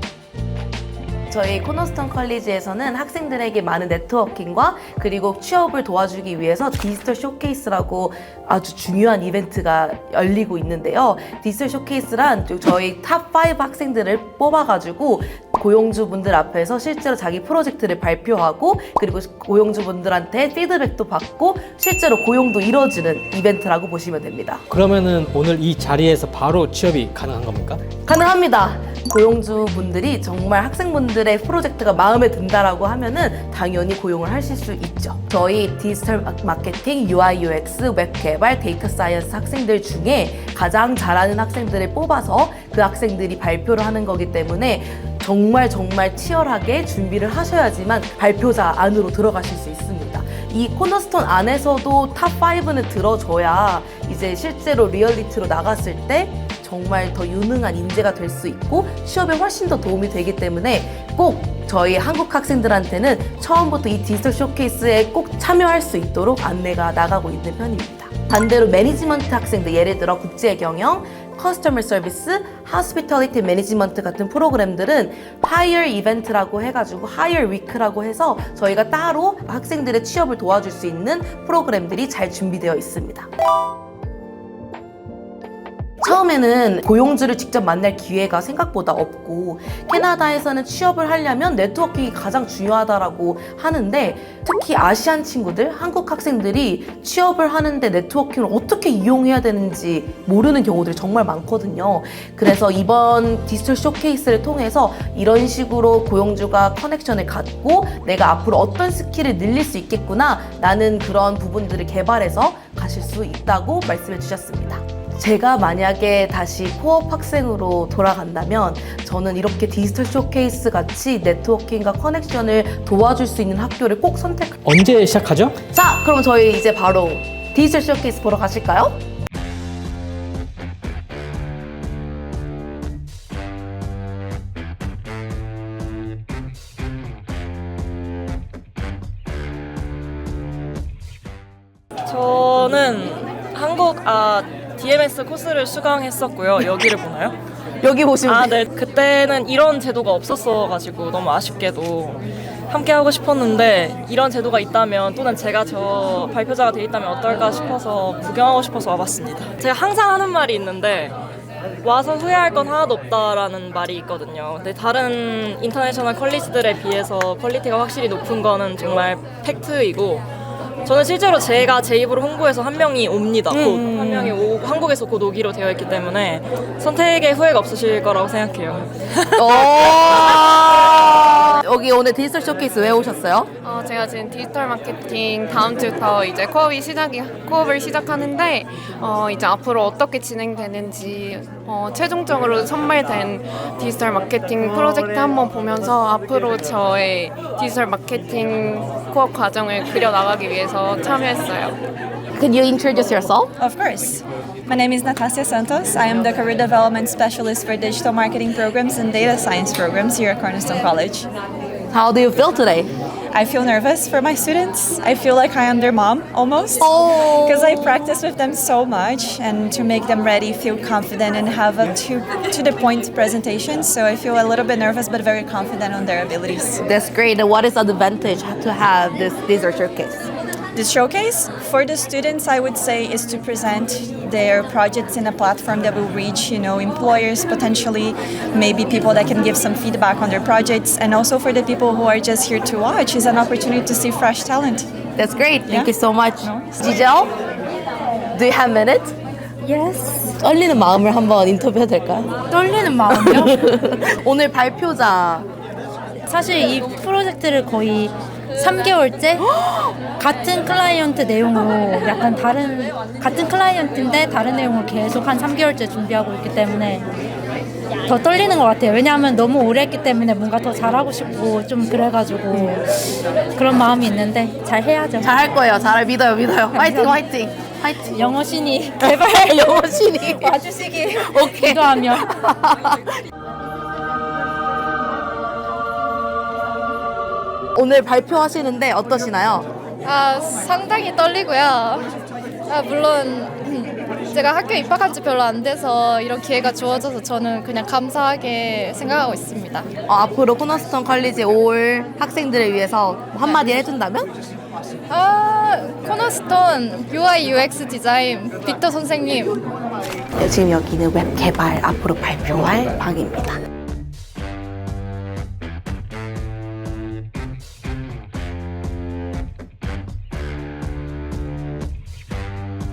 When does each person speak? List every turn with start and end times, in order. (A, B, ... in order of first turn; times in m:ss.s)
0:01.3-0:24.6 A
0:24.7-0:27.8 B
0:28.0-1:23.3 A
1:26.0-2:04.6 A
2:04.6-2:05.6 B
2:05.7-2:09.0 A
2:22.0-2:27.4 C
2:27.8-2:28.6 A
2:28.2-2:41.1 C
2:41.8-2:50.2 C
2:50.8-2:59.4 C
2:53.5-2:54.4 A
2:59.4-3:03.5 A
3:03.6-3:21.8 D
3:22.3-3:23.5 A
3:23.6-3:31.3 E
3:31.9-3:32.9 A
3:33.3-3:46.8 E
3:36.8-3:38.0 A
3:46.8-3:50.3 A
3:50.7-4:04.9 E
4:05.2-4:07.3 A
4:08.3-4:09.2 A
4:09.6-4:10.3 F
4:10.4-4:12.5 A
4:12.5-4:13.5 F
4:13.1-4:15.5 A
4:16.2-4:19.5 F
4:20.2-4:27.0 F
4:28.0-4:32.8 F
4:33.6-4:35.3 F
4:35.2-4:38.3 A
4:36.7-4:37.2 F
4:38.1-4:42.3 F
4:39.0-4:43.0 A
4:47.7-4:49.7 A
4:50.0-4:52.1 G
4:52.7-4:59.9 G
5:00.1-5:04.3 A
5:05.1-5:09.6 G
5:10.4-5:13.6 A